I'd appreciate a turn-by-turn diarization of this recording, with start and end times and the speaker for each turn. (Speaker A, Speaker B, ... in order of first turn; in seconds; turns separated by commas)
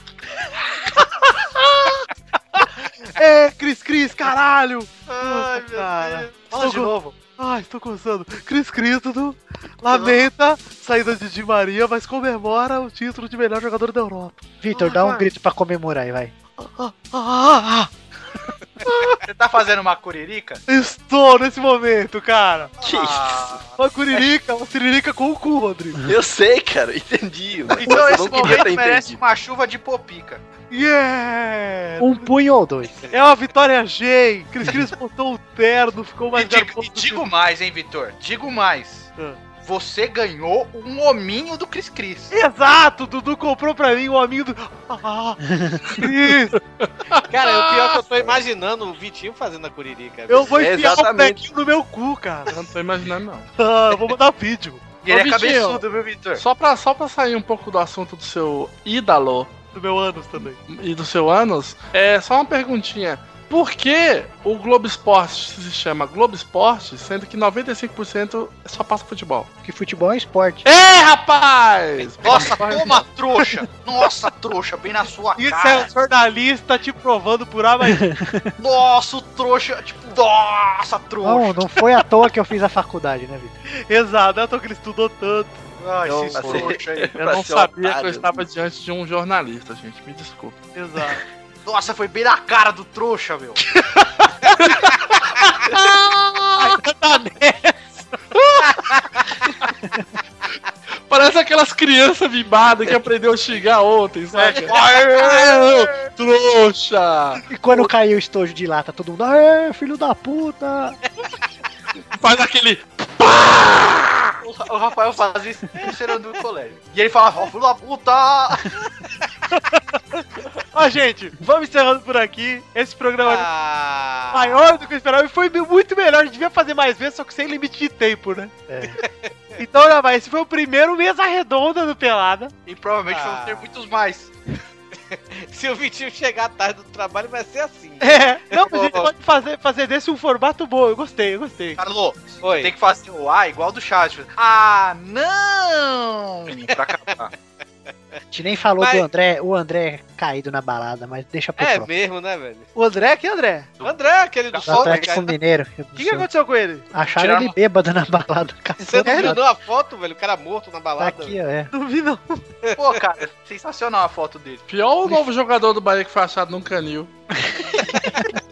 Speaker A: 0.9-15.2, Speaker B: 5.1-7.2, Speaker B: 9.9-10.2, Speaker C: 14.6-16.3, Speaker A: 16.6-17.9, Speaker A: 18.8-19.2, Speaker B: 19.2-20.6, Speaker A: 20.7-22.7, Speaker B: 22.8-23.7, Speaker D: 22.8-23.6, Speaker A: 23.8-26.0, Speaker D: 26.0-29.2, Speaker B: 27.7-30.4, Speaker A: 27.9-28.5, Speaker A: 30.7-32.3, Speaker C: 32.0-33.0, Speaker A: 33.1-37.2, Speaker B: 36.3-39.1, Speaker B: 39.6-42.3, Speaker A: 42.3-46.6, Speaker C: 45.5-45.8, Speaker E: 46.8-48.0, Speaker F: 47.3-50.5, Speaker A: 50.3-52.5, Speaker D: 50.5-51.4, Speaker E: 52.5-53.5, Speaker A: 53.6-54.9, Speaker B: 55.0-56.4, Speaker E: 55.1-55.8, Speaker E: 56.4-59.5, Speaker A: 59.7-60.6, Speaker E: 60.6-69.5, Speaker C: 69.6-70.6, Speaker E: 70.6-73.0, Speaker B: 72.2-75.9, Speaker A: 75.4-78.0, Speaker C: 77.9-78.5, Speaker B: 78.6-81.8, Speaker C: 81.2-83.5, Speaker A: 83.7-85.6, Speaker B: 85.8-87.1, Speaker D: 86.1-88.4, Speaker E: 87.1-90.6, Speaker A: 90.7-91.2, Speaker B: 91.6-93.6, Speaker E: 95.6-96.8, Speaker A: 96.6-97.9, Speaker E: 101.1-107.4, Speaker B: 104.3-106.1, Speaker C: 107.5-111.0, Speaker E: 112.1-114.3, Speaker B: 114.4-118.8, Speaker A: 119.5-123.5, Speaker F: 123.2-124.6, Speaker A: 124.3-128.6, Speaker C: 128.7-129.0, Speaker F: 129.0-129.3, Speaker A: 129.6-132.5, Speaker B: 132.7-134.3, Speaker F: 133.1-133.6, Speaker F: 134.9-139.1, Speaker A: 138.0-141.8, Speaker B: 138.7-139.1, Speaker B: 141.8-147.3, Speaker F: 142.4-142.7, Speaker F: 146.6-147.2, Speaker C: 148.3-151.9, Speaker F: 148.8-149.1, Speaker F: 151.6-152.7, Speaker A: 152.8-153.7, Speaker F: 153.8-155.3, Speaker B: 154.5-155.2, Speaker C: 154.6-156.3, Speaker A: 155.9-156.9, Speaker C: 156.9-159.4, Speaker B: 157.1-157.5, Speaker F: 158.8-161.4, Speaker A: 159.0-159.3, Speaker C: 161.0-161.7, Speaker A: 161.7-162.4, Speaker F: 162.7-163.0, Speaker B: 162.8-164.6, Speaker E: 164.7-167.1, Speaker C: 168.0-168.3